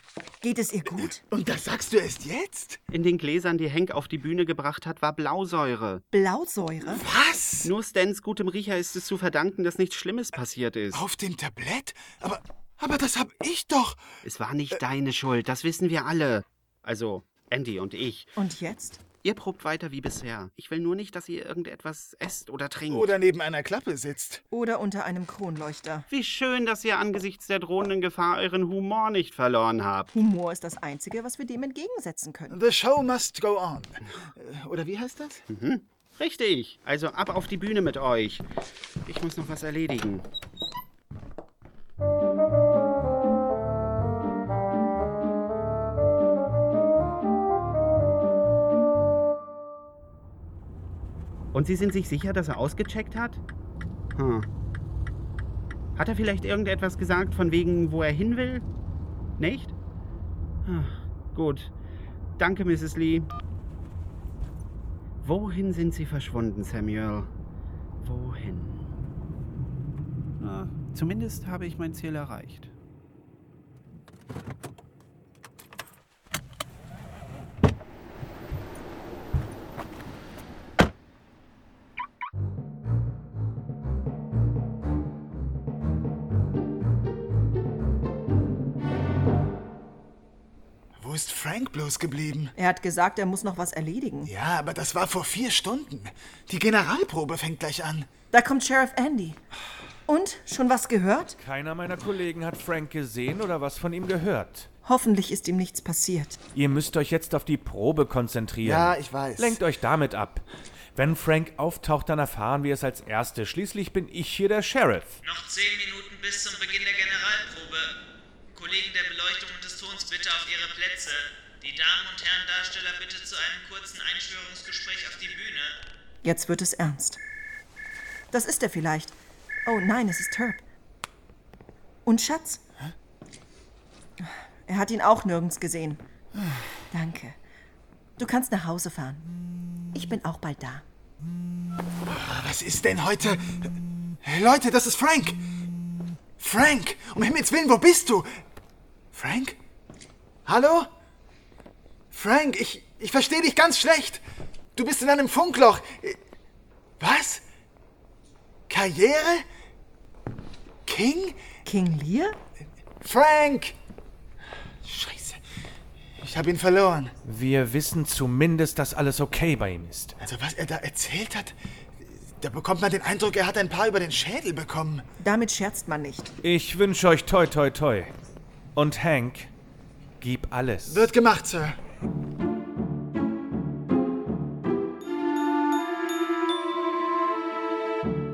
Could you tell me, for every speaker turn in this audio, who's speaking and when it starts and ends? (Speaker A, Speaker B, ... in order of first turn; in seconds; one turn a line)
Speaker A: 0.4-1.2
Speaker B: 0.9-2.8
Speaker C: 2.9-6.0
Speaker A: 6.1-7.0
Speaker B: 6.9-7.7
Speaker C: 7.6-11.1
Speaker B: 10.9-14.0
Speaker C: 14.2-18.3
Speaker A: 18.4-19.0
Speaker C: 19.2-23.1
Speaker B: 22.9-24.4
Speaker A: 24.5-26.1
Speaker C: 26.1-30.1
Speaker A: 30.1-32.6
Speaker B: 32.5-35.4
Speaker C: 35.5-38.5
Speaker C: 39.0-40.2
Speaker C: 51.5-53.4
Speaker C: 54.1-54.5
Speaker C: 56.0-58.6
Speaker C: 59.4-59.7
Speaker C: 60.6-61.7
Speaker C: 62.4-63.3
Speaker C: 65.2-67.3
Speaker C: 68.0-68.8
Speaker C: 70.4-72.7
Speaker B: 91.0-92.5
Speaker A: 92.5-94.3
Speaker B: 94.2-98.1
Speaker A: 98.3-99.4
Speaker A: 100.1-101.4
Speaker D: 101.4-104.7
Speaker A: 104.8-106.4
Speaker D: 106.5-110.4
Speaker B: 108.6-109.6
Speaker D: 110.9-115.2
Speaker E: 115.2-117.9
Speaker E: 118.5-125.8
Speaker A: 126.2-127.2
Speaker A: 128.3-129.1
Speaker A: 129.7-130.6
Speaker A: 132.1-132.6
Speaker A: 134.2-136.0
Speaker A: 136.9-137.4
Speaker A: 138.2-139.3
Speaker A: 139.9-140.8
Speaker B: 142.1-145.5
Speaker B: 146.4-148.4
Speaker B: 149.1-149.6
Speaker B: 150.4-150.9
Speaker B: 152.1-154.2
Speaker B: 154.8-156.2
Speaker B: 157.0-157.4
Speaker B: 158.7-159.4
Speaker B: 160.8-161.4
Speaker A: 161.6-162.4
Speaker B: 163.0-163.7
Speaker B: 164.8-165.4
Speaker B: 166.2-167.1
Speaker D: 167.2-170.2
Speaker B: 170.2-171.5
Speaker B: 172.4-175.0
Speaker A: 175.2-176.3
Speaker D: 176.4-178.1
Speaker D: 178.8-179.5
Speaker D: 180.2-181.1
Speaker B: 180.9-181.8